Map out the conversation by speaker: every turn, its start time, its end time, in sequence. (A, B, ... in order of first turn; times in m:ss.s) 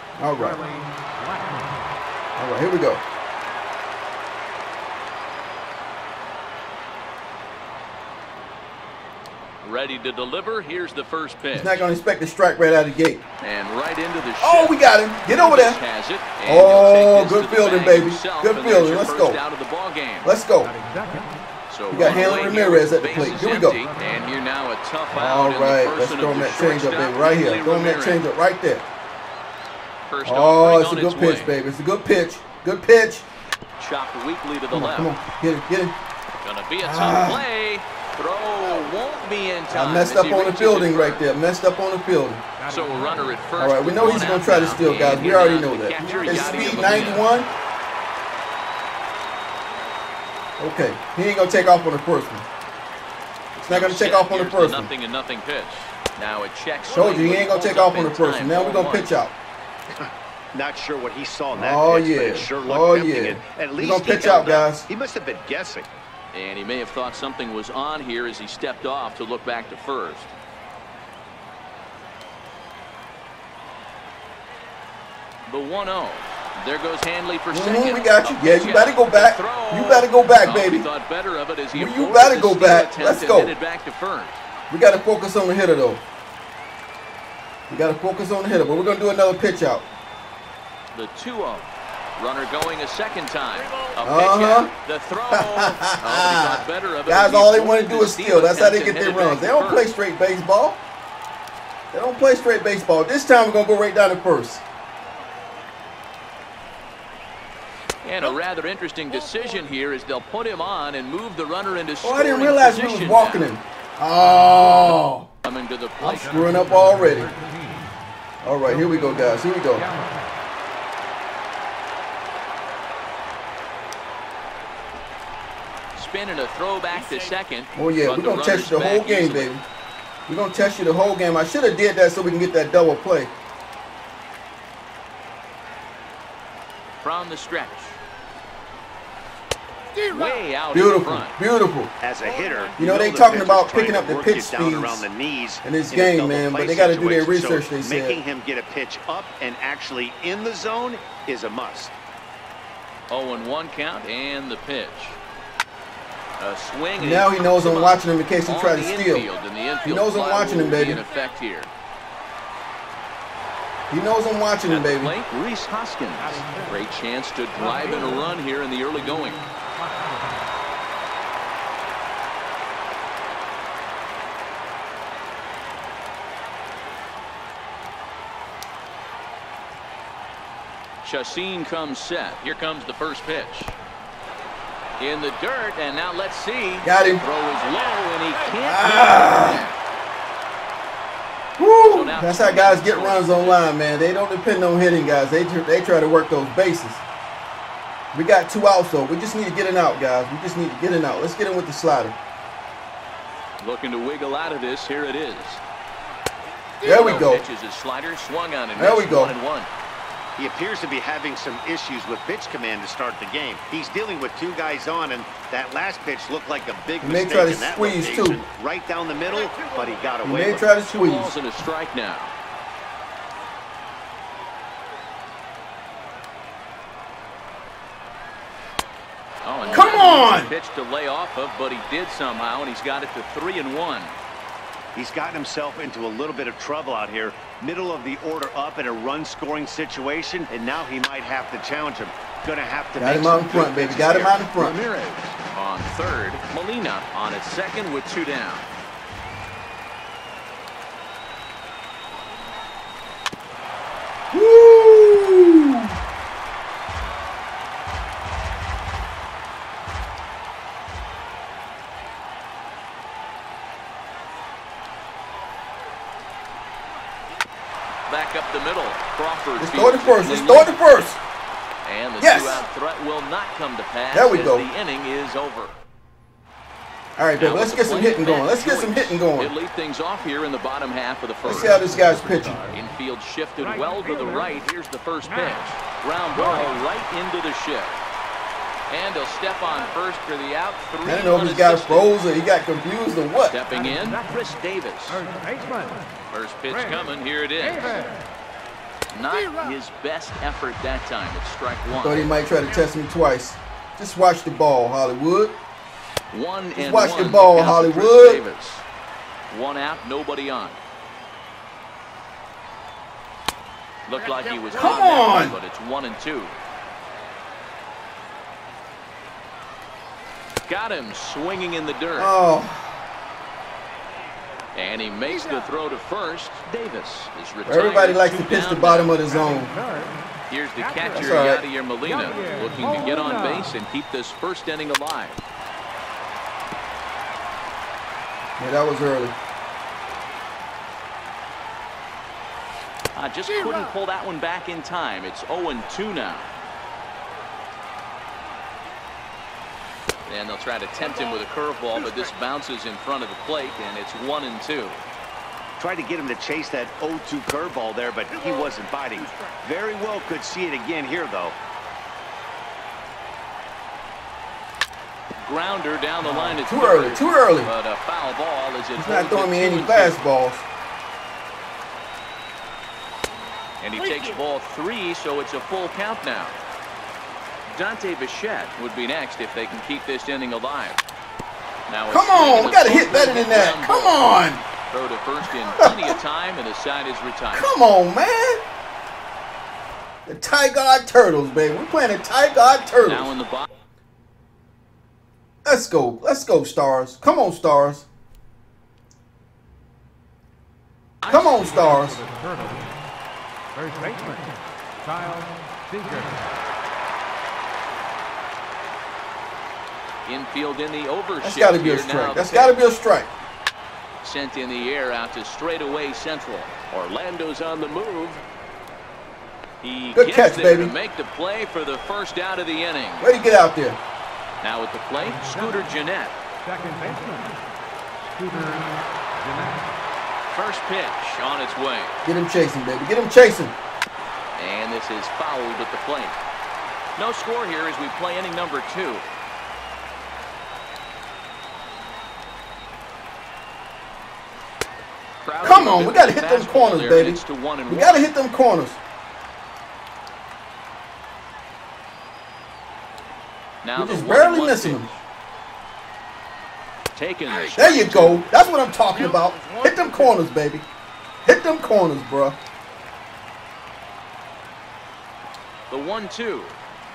0:00.2-0:00.6 A
0:00.5-0:01.4 B
0:02.4-0:03.0 A
0:09.6-0:11.8 C
0:11.5-0:13.2 A
0:13.4-0:20.3 C
0:14.4-0:15.8 A
0:16.5-0:19.4 A
0:20.2-0:20.7 A
0:20.6-0:21.3 B
0:21.7-0:28.2 C
0:21.9-0:23.8 A
0:25.1-0:28.8 A
0:30.0-0:31.5 C
0:30.2-0:33.3 A
0:33.8-0:35.1 C
0:34.7-0:36.0 A
0:36.4-0:41.2 C
0:36.8-0:37.4 A
0:39.7-0:42.4 A
0:42.7-0:47.3 C
0:43.6-0:47.5 A
0:50.6-0:52.4 A
0:53.6-0:59.2 C
0:53.6-0:54.9 A
0:56.9-0:59.3 A
1:00.0-1:05.9 D
1:01.5-1:04.9 A
1:06.3-1:10.3 C
1:15.5-1:24.4 C
1:17.5-1:20.9 A
1:21.7-1:23.6 A
1:24.7-1:26.0 A
1:27.7-1:29.9 A
1:30.9-1:39.9 C
1:34.0-1:34.7 A
1:35.3-1:40.8 A
1:41.9-1:44.6 A
1:48.0-1:53.5 C
1:52.0-1:55.3 A
1:55.4-1:56.5 C
1:56.0-1:57.3 A
1:58.4-1:59.9 A
2:05.9-2:09.5 C
2:07.8-2:09.6 A
2:10.3-2:13.3 A
2:17.0-2:18.0 C
2:20.1-2:21.4 C
2:20.7-2:21.9 A
2:22.0-2:32.0 D
2:22.8-2:25.1 A
2:25.6-2:28.2 A
2:33.1-2:35.2 C
2:36.4-2:41.7 C
2:37.0-2:39.3 A
2:39.8-2:41.0 A
2:43.9-2:45.1 A
2:44.7-2:49.4 C
3:01.0-3:03.8 C
3:05.0-3:09.8 C
3:06.8-3:07.2 A
3:08.6-3:09.7 A
3:11.6-3:17.0 A
3:11.8-3:13.6 C
3:18.1-3:22.2 A
3:23.6-3:25.6 C
3:26.8-3:27.4 A
3:26.8-3:29.7 C
3:28.8-3:29.4 A
3:30.4-3:40.7 D
3:37.0-3:38.4 A
3:40.2-3:41.3 A
3:40.9-3:42.3 C
3:49.4-3:54.2 C
3:49.7-3:50.5 A
3:55.0-4:03.8 D
4:03.0-4:04.8 A
4:03.6-4:08.7 C
4:14.3-4:15.9 A
4:28.1-4:31.1 C
4:29.6-4:31.2 A
4:31.8-4:35.8 C
4:32.2-4:32.6 A
4:34.1-4:34.7 A
4:37.2-4:39.5 A
4:37.4-4:42.1 C
4:41.4-4:42.6 A
4:42.7-4:48.0 C
4:48.9-4:52.1 C
4:51.0-4:53.6 A
4:53.4-4:55.2 C
4:56.3-4:58.1 C
4:59.1-5:02.3 C
5:02.0-5:05.6 A
5:06.3-5:08.9 C
5:06.8-5:08.4 A
5:09.5-5:10.8 C
5:14.1-5:16.6 C
5:14.7-5:15.6 A
5:20.6-5:22.4 C
5:22.2-5:23.0 A
5:24.7-5:29.2 C
5:27.7-5:29.7 A
5:30.5-5:35.4 C
5:31.1-5:31.6 A
5:38.6-5:39.4 A
5:43.1-5:46.5 C
5:50.3-5:55.0 C
5:55.8-6:01.6 D
6:05.4-6:10.2 C
6:06.4-6:07.7 A
6:09.0-6:10.6 A
6:13.8-6:16.6 C
6:17.7-6:21.0 C
6:21.9-6:24.2 C
6:22.1-6:24.6 A
6:24.9-6:27.7 C
6:25.8-6:26.2 A
6:27.5-6:28.6 A
6:30.3-6:33.3 A
6:33.0-6:33.7 C
6:35.6-6:38.1 A
6:41.2-6:42.2 C
6:41.3-6:42.2 A
6:43.9-6:44.4 B
6:45.2-6:46.2 B
6:50.2-6:52.8 C
6:51.4-6:53.3 A
6:54.2-6:58.4 C
6:59.8-7:03.3 C
7:00.2-7:00.9 A
7:03.2-7:04.0 A
7:04.6-7:06.4 C
7:06.7-7:07.5 B
7:08.4-7:08.8 B
7:10.5-7:12.2 C
7:12.2-7:13.8 A
7:14.6-7:16.4 C
7:17.2-7:19.3 C
7:25.4-7:28.3 C
7:25.6-7:29.0 A
7:33.8-7:35.2 C
7:34.0-7:35.1 A
7:37.1-7:38.7 C
7:37.8-7:40.9 A
7:41.4-7:42.6 A
7:45.9-7:46.8 C